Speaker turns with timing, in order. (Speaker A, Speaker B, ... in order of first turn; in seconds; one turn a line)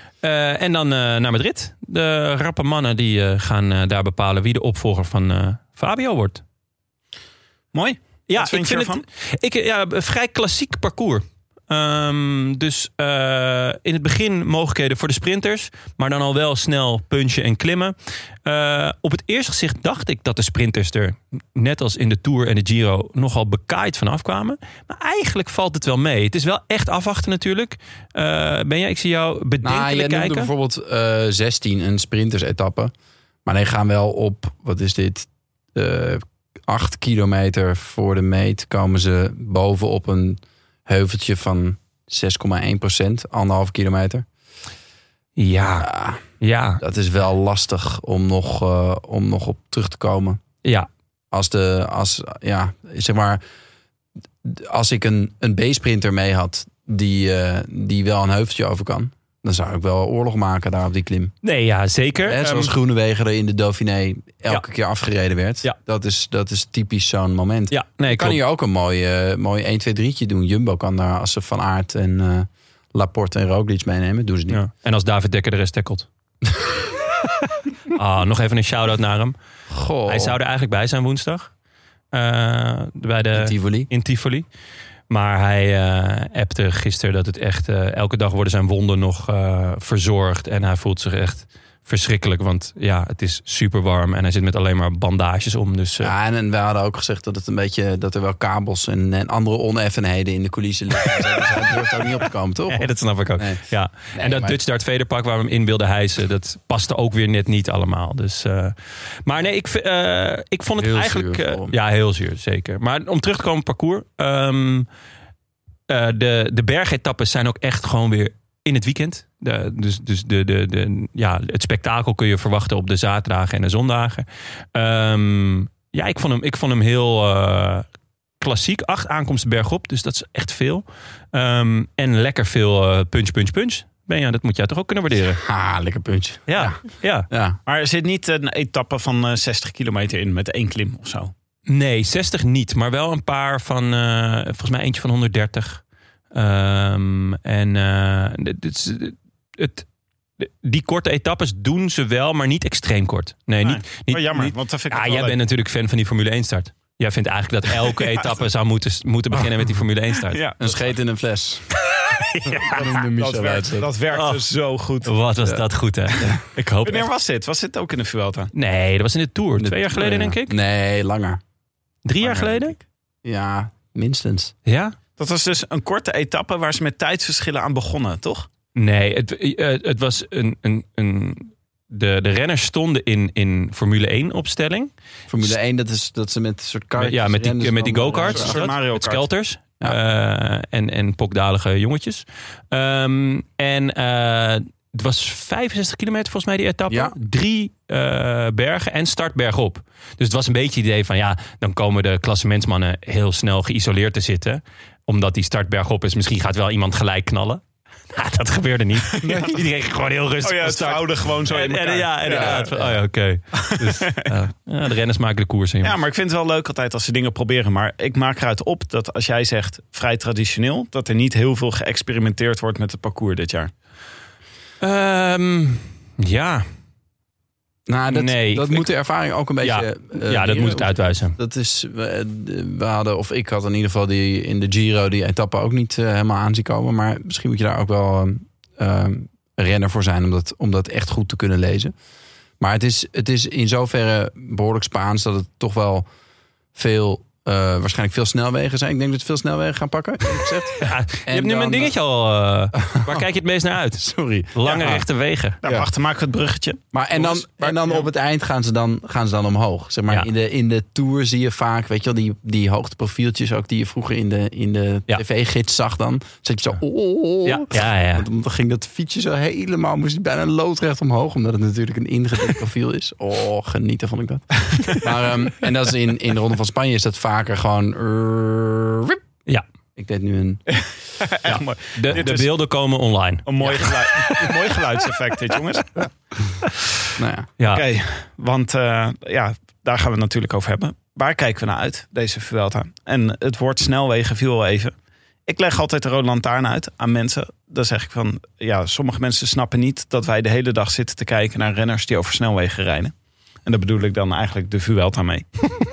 Speaker A: 0.2-6.4
Speaker B: 7.7-9.0
Speaker A: 8.3-30.5
Speaker C: 29.6-32.9
Speaker C: 33.4-44.2
Speaker A: 45.4-46.8
Speaker C: 45.8-46.2
Speaker C: 46.8-50.4
Speaker A: 50.6-50.9
Speaker C: 51.3-53.4
Speaker C: 54.4-61.3
Speaker A: 61.4-62.7
Speaker C: 62.2-74.6
Speaker A: 67.7-68.4
Speaker A: 74.5-76.1
Speaker A: 77.9-79.3
Speaker C: 79.7-80.3
Speaker A: 80.0-81.5
Speaker A: 82.1-84.5
Speaker C: 83.3-83.9
Speaker A: 85.1-96.1
Speaker C: 96.0-104.6
Speaker A: 102.7-114.9
Speaker C: 110.8-111.7
Speaker A: 115.9-127.8
Speaker A: 128.4-135.4
Speaker C: 135.4-136.8
Speaker A: 136.5-137.3
Speaker C: 137.3-137.6
Speaker B: 137.7-141.3
Speaker A: 141.7-149.8
Speaker A: 150.4-160.4
Speaker B: 153.6-155.4
Speaker B: 160.3-160.8
Speaker C: 160.6-161.7
Speaker A: 162.1-162.8
Speaker C: 162.6-163.9
Speaker B: 162.6-165.1
Speaker A: 164.1-164.4
Speaker A: 165.0-167.1
Speaker C: 165.4-166.4
Speaker B: 166.8-168.5
Speaker A: 168.5-170.6
Speaker C: 169.6-171.4
Speaker A: 172.0-172.8
Speaker C: 172.2-172.6
Speaker C: 173.2-174.5
Speaker A: 174.7-174.9
Speaker B: 175.2-178.5
Speaker A: 178.7-184.9
Speaker C: 185.3-188.6
Speaker A: 187.0-216.0
Speaker B: 188.2-189.2
Speaker C: 196.9-197.1
Speaker B: 209.1-209.5
Speaker C: 209.2-209.5
Speaker B: 210.4-212.7
Speaker C: 212.3-213.0
Speaker B: 213.6-214.3
Speaker B: 215.8-223.7
Speaker A: 224.8-226.7
Speaker C: 227.9-241.9
Speaker A: 228.1-228.9
Speaker A: 229.6-231.4
Speaker C: 242.6-246.0
Speaker C: 246.7-251.9
Speaker A: 250.8-255.6
Speaker C: 252.8-253.2
Speaker C: 254.0-255.0
Speaker B: 255.6-258.1
Speaker C: 256.9-279.2
Speaker A: 267.4-268.3
Speaker C: 279.9-280.6
Speaker B: 280.7-282.5
Speaker A: 281.4-284.5
Speaker B: 283.4-286.1
Speaker A: 286.6-286.9
Speaker C: 287.2-287.5
Speaker A: 287.6-287.8
Speaker B: 287.7-294.9
Speaker B: 295.5-303.1
Speaker B: 303.6-305.5